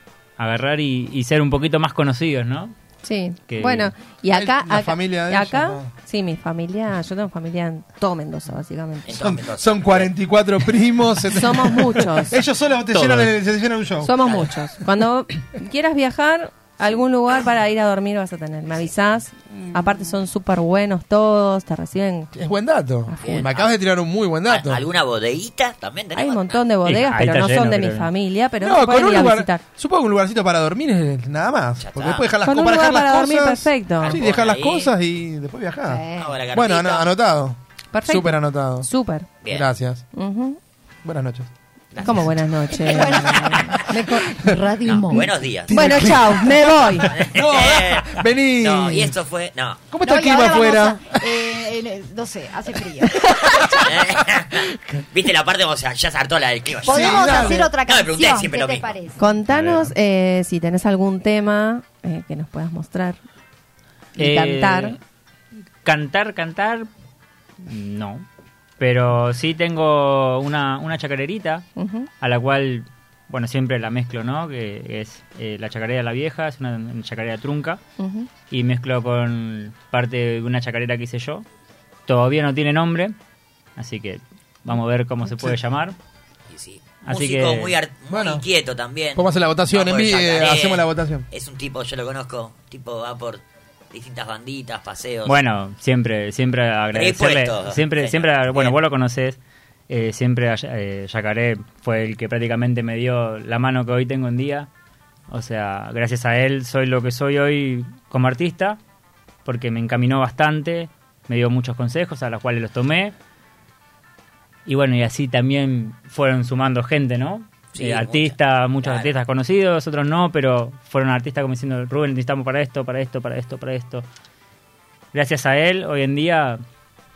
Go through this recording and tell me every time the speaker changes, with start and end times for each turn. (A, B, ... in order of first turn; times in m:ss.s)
0:00.4-0:02.7 A
0:03.0-0:09.1 B
0:03.5-0:03.9 A
0:04.3-0:05.9 C
0:09.1-0:10.1 D
0:09.2-0:14.7 C
0:11.3-0:12.4 B
0:12.9-0:13.3 A
0:14.0-0:22.3 B
0:19.7-0:20.0 C
0:22.3-0:24.8 C
0:23.1-0:23.4 B
0:23.2-0:23.7 D
0:24.5-0:26.6 D
0:26.1-0:29.6 B
0:26.8-0:28.1 A
0:28.6-0:38.9 C
0:31.8-0:32.3 D
0:32.4-0:34.2 B
0:34.0-0:34.9 D
0:35.8-0:36.4 E
0:36.2-0:37.1 D
0:37.9-0:39.3 B
0:39.5-0:40.0 C
0:40.1-0:40.6 B
0:41.0-0:41.5 C
0:41.9-0:42.3 D
0:42.0-0:44.3 B
0:42.7-0:45.3 E
0:42.9-0:43.9 D
0:45.1-0:45.7 D
0:45.7-0:49.2 C
0:45.7-0:47.1 B
0:47.1-0:49.9 D
0:49.9-0:51.4 C
0:50.0-0:53.3 E
0:53.1-0:53.7 B
0:53.8-0:59.0 D
0:56.8-0:59.3 E
0:56.8-0:57.7 C
0:59.2-1:03.2 B
0:59.5-0:59.9 A
1:04.2-1:05.0 B
1:04.2-1:05.0 A
1:05.8-1:06.9 A
1:07.6-1:08.2 A
1:08.8-1:11.6 A
1:11.8-1:12.1 B
1:12.2-1:17.8 A
1:18.0-1:18.3 B
1:18.5-1:21.4 A
1:22.1-1:23.1 A
1:23.8-1:26.0 A
1:26.5-1:35.4 D
1:27.0-1:27.8 A
1:28.1-1:28.4 C
1:29.1-1:31.2 C
1:35.2-1:44.7 A
1:36.9-1:38.8 D
1:45.3-1:48.8 A
1:49.4-1:53.1 A
1:54.6-2:04.0 A
1:57.7-1:59.1 D
2:05.1-2:06.6 A